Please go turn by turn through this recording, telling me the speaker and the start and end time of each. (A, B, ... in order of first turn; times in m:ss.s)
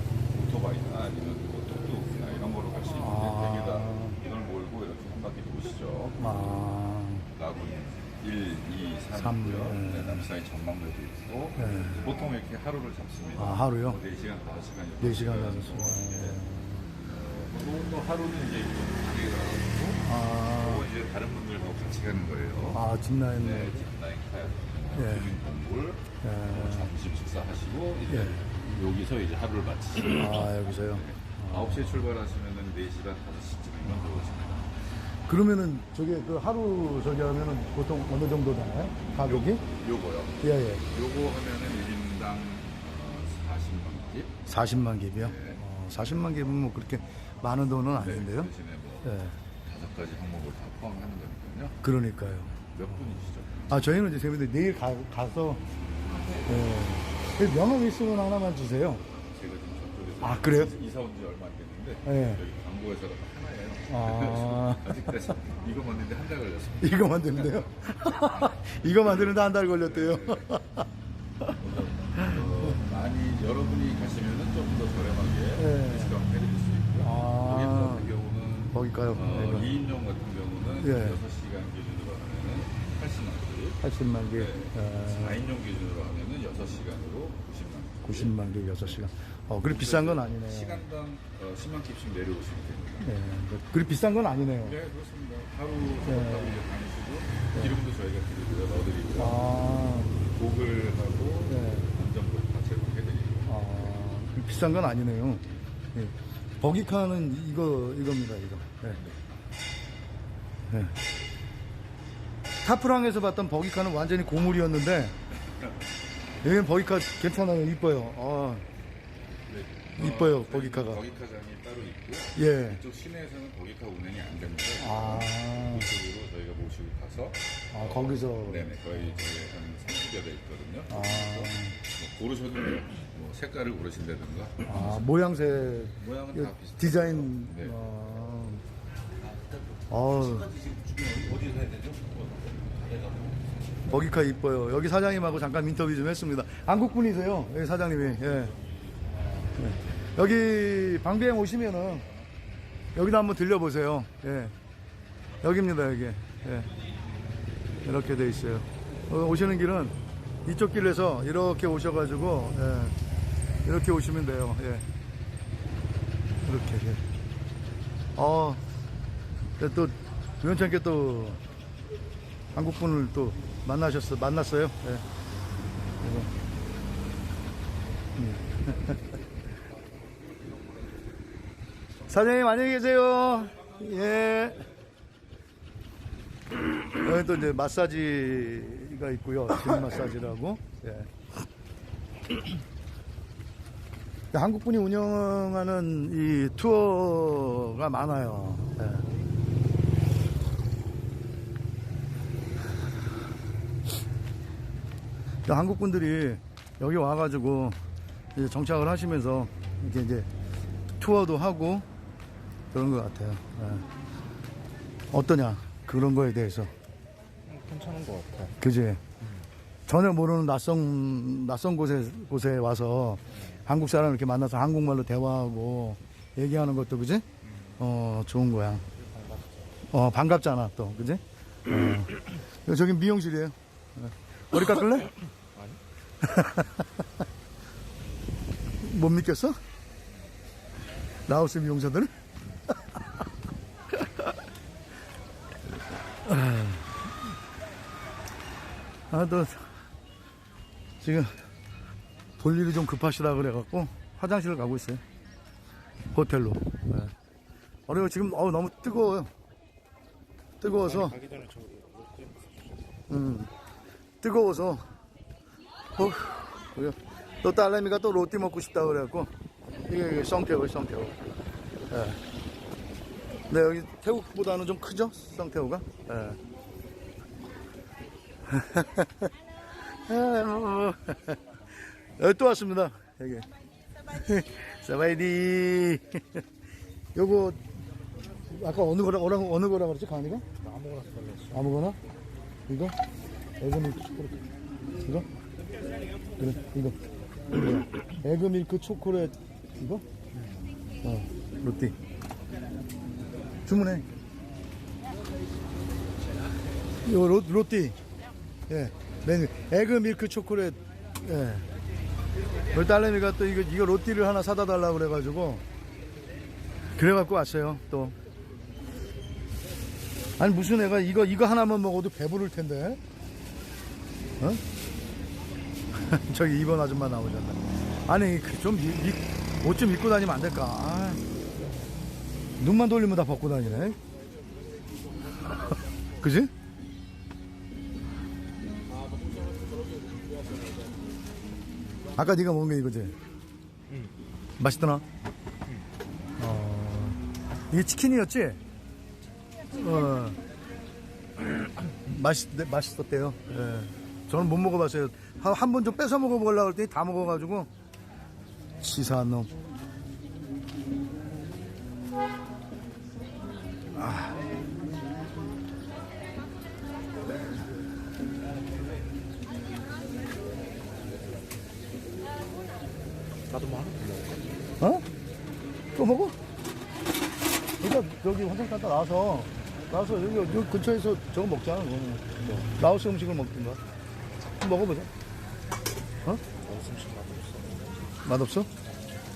0:00.3-0:06.4 A
0:02.9-0:04.2 B
0:06.2-0:07.3 B
0:07.3-0:16.4 A
0:09.1-0:10.3 B
0:11.6-0:12.0 B
0:13.4-0:14.0 B
0:15.0-0:16.9 B
0:17.0-0:34.9 A
0:20.0-0:20.9 B
0:22.7-0:23.9 B
0:24.9-0:25.3 B
0:26.2-0:26.9 B
0:28.1-0:28.5 B
0:30.1-0:32.0 B
0:35.3-0:39.6 B
0:39.0-0:44.5 A
0:40.4-0:40.8 B
0:44.5-0:48.5 B
0:45.2-0:45.6 A
0:48.0-0:51.8 A
0:49.0-0:49.4 B
0:51.8-0:52.5 B
0:52.6-0:53.7 A
0:53.7-0:55.6 B
0:56.4-0:59.0 B
0:59.2-1:10.5 A
1:00.2-1:00.7 B
1:02.1-1:02.4 B
1:03.9-1:05.0 B
1:06.8-1:10.9 B
1:11.6-1:28.4 A
1:12.2-1:12.7 B
1:15.6-1:16.2 B
1:17.0-1:18.2 B
1:18.7-1:19.8 B
1:20.8-1:21.2 B
1:23.8-1:25.5 B
1:28.1-1:30.8 B
1:29.6-1:33.1 A
1:33.0-1:34.8 B
1:34.6-1:39.4 A
1:36.0-1:36.6 B
1:39.2-1:40.2 B
1:40.2-1:43.6 A
1:41.5-1:41.9 B
1:43.5-1:49.0 B
1:48.9-1:49.2 A
1:52.6-1:55.2 B
1:56.4-1:58.6 B
1:59.5-2:15.0 A
2:00.0-2:01.0 B
2:02.4-2:02.8 B
2:04.8-2:05.9 B
2:07.7-2:08.7 B
2:10.9-2:11.8 B
2:14.6-2:18.6 B
2:15.9-2:17.8 A
2:19.9-2:20.5 B
2:20.4-2:23.3 A
2:23.9-2:28.5 B
2:28.1-2:30.0 A
2:29.6-2:32.1 B
2:33.0-2:34.5 B
2:35.4-2:36.7 B
2:37.8-2:42.9 B
2:43.6-2:44.8 B
2:46.4-2:47.0 B
2:48.2-2:48.6 B
2:49.6-2:51.4 B
2:52.6-2:55.0 B
2:56.0-2:56.3 B
2:58.2-2:59.0 B
3:02.1-3:04.7 B
3:06.9-3:11.1 B
3:14.3-3:19.1 B
3:25.5-3:27.8 B
3:28.4-3:30.3 B
3:31.0-3:31.9 B
3:32.7-3:33.9 B
3:35.1-3:36.7 B
3:37.5-3:38.5 C
3:38.6-3:39.1 B
3:39.9-3:47.2 B
3:47.8-3:48.8 B
3:49.0-3:49.7 C
3:49.9-3:55.2 B
3:55.6-3:55.8 C
3:56.2-3:57.1 B
3:58.8-3:59.6 B
4:01.3-4:02.1 B
4:06.3-4:06.9 B
4:09.1-4:09.7 B
4:11.0-4:11.3 B
4:12.4-4:15.0 B
4:16.1-4:17.1 B
4:17.9-4:19.3 B
4:20.6-4:21.2 B
4:20.9-4:22.8 C
4:23.1-4:23.5 B
4:24.2-4:24.8 B
4:26.0-4:31.2 B
4:31.9-4:32.2 B
4:33.5-4:36.4 B
4:38.5-4:41.4 B
4:42.2-4:43.5 B
4:44.0-4:46.4 B
4:47.2-4:47.6 B
4:48.4-4:50.4 B
4:50.6-4:51.6 C
4:51.5-4:52.0 B
4:52.7-4:53.0 B
4:53.6-4:54.4 B
4:55.0-4:55.3 B
4:56.4-4:57.0 B
4:57.5-5:00.0 B
5:00.4-5:00.7 C
5:01.0-5:02.0 B
5:03.7-5:04.0 B
5:07.0-5:08.0 B
5:08.7-5:11.7 B
5:12.7-5:15.6 B
5:16.9-5:18.2 B
5:20.4-5:23.0 B
5:25.9-5:31.2 B
5:32.6-5:34.0 B
5:36.2-5:36.5 B
5:39.1-5:40.9 C
5:42.2-5:43.2 B
5:43.9-5:44.2 C
5:44.6-5:45.0 B
5:46.4-5:47.2 B
5:47.7-5:48.6 B
5:49.7-5:50.4 B
5:51.8-5:57.7 B
5:58.8-5:59.5 B
6:04.0-6:04.5 B
6:13.5-6:14.5 C
6:14.8-6:15.1 B
6:16.0-6:16.4 B
6:17.8-6:23.8 B
6:24.6-6:25.1 B
6:26.6-6:27.9 C
6:28.2-6:28.7 B